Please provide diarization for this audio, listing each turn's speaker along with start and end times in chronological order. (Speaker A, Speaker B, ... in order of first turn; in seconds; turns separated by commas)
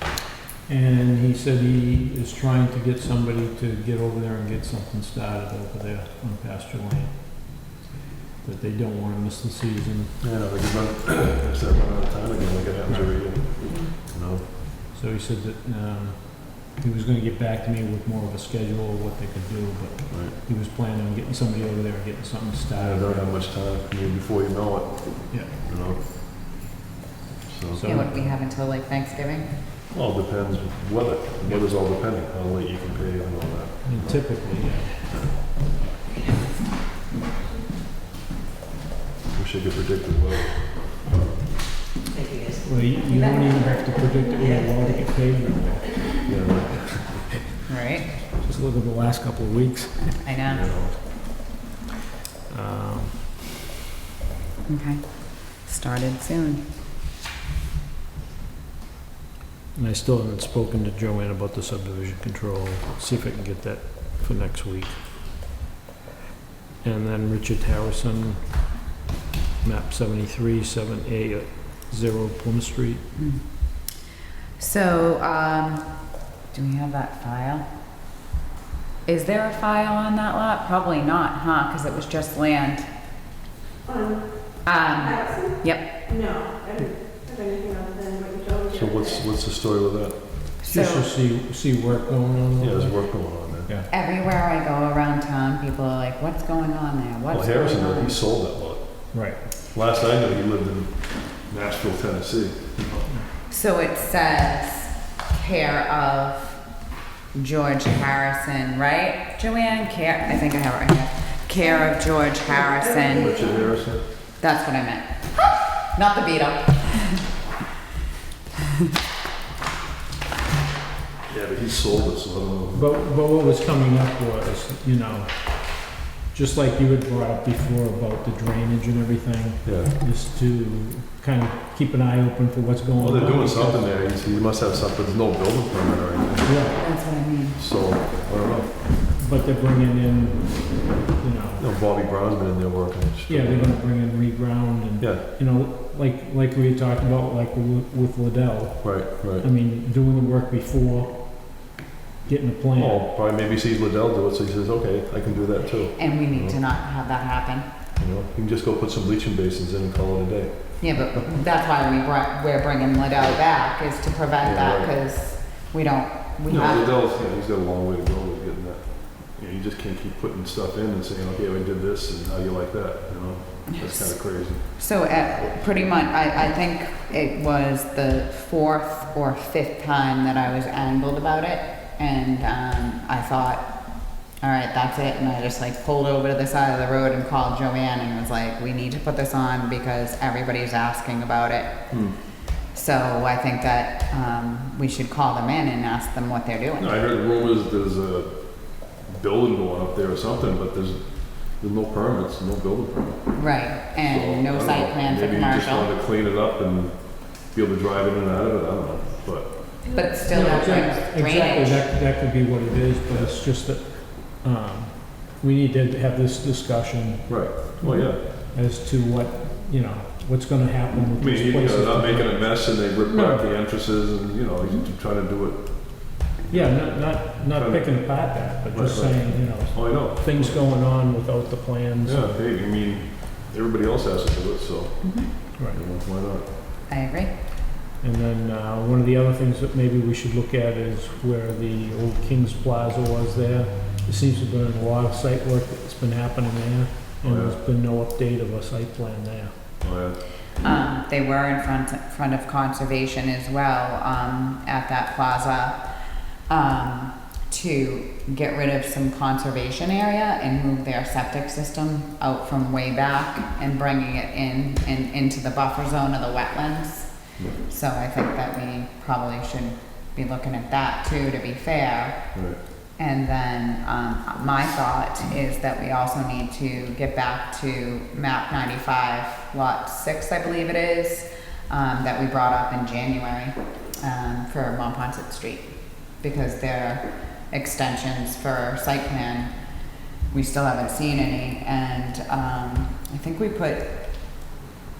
Speaker A: 0.7-7.6, Speaker A: 8.4-10.2, Speaker B: 10.2-14.4, Speaker A: 12.9-13.1, Speaker A: 14.9-23.3, Speaker B: 22.7-26.7, Speaker B: 27.4-28.1, Speaker A: 27.7-28.1, Speaker C: 27.8-29.5, Speaker B: 29.9-34.4, Speaker A: 33.8-35.2, Speaker B: 39.3-40.8, Speaker A: 42.6-46.3, Speaker D: 43.2-43.5, Speaker B: 46.2-47.3, Speaker C: 47.7-48.1, Speaker A: 48.3-50.1, Speaker C: 50.2-50.7, Speaker B: 50.5-51.0, Speaker A: 52.5-53.2, Speaker C: 54.7-56.6, Speaker A: 59.7-65.0, Speaker A: 66.8-68.4, Speaker A: 69.6-73.0, Speaker C: 74.6-75.9, Speaker C: 76.5-77.6, Speaker C: 79.0-82.9, Speaker D: 83.8-89.2, Speaker C: 84.6-86.1, Speaker B: 88.7-90.2, Speaker C: 90.6-91.1, Speaker A: 90.7-93.0, Speaker B: 92.6-93.7, Speaker C: 93.9-98.2, Speaker B: 97.3-103.1, Speaker A: 99.1-99.4, Speaker C: 103.5-106.6, Speaker C: 107.3-113.4, Speaker D: 111.6-113.8, Speaker B: 113.1-114.0, Speaker C: 114.4-115.0, Speaker C: 115.9-117.2, Speaker B: 121.3-122.9, Speaker A: 122.7-125.3, Speaker A: 126.3-133.8, Speaker B: 129.6-129.9, Speaker B: 133.0-136.6, Speaker A: 136.4-136.8, Speaker C: 136.7-137.6, Speaker B: 137.6-138.8, Speaker A: 139.2-141.6, Speaker B: 141.6-143.8, Speaker A: 143.3-153.1, Speaker B: 145.0-145.2, Speaker B: 148.8-149.4, Speaker B: 152.8-156.6, Speaker C: 155.9-157.7, Speaker B: 158.0-161.0, Speaker C: 160.8-166.9, Speaker B: 164.4-164.9, Speaker B: 166.5-176.1, Speaker C: 173.8-174.2, Speaker C: 174.8-183.6, Speaker C: 184.4-191.8, Speaker C: 192.7-196.9, Speaker B: 196.8-209.6, Speaker C: 203.3-205.9, Speaker D: 209.8-210.1, Speaker C: 209.9-211.8, Speaker A: 210.3-223.4, Speaker B: 217.3-218.2, Speaker B: 221.2-230.7, Speaker A: 226.5-232.3, Speaker B: 232.0-236.4, Speaker C: 235.0-235.3, Speaker C: 236.9-237.3, Speaker A: 238.0-249.5, Speaker B: 247.2-247.6, Speaker B: 249.8-250.2, Speaker C: 250.6-255.7, Speaker C: 256.5-267.1, Speaker C: 267.7-272.1, Speaker B: 272.3-272.6, Speaker C: 273.0-285.6, Speaker C: 286.2-289.5, Speaker C: 290.3-293.9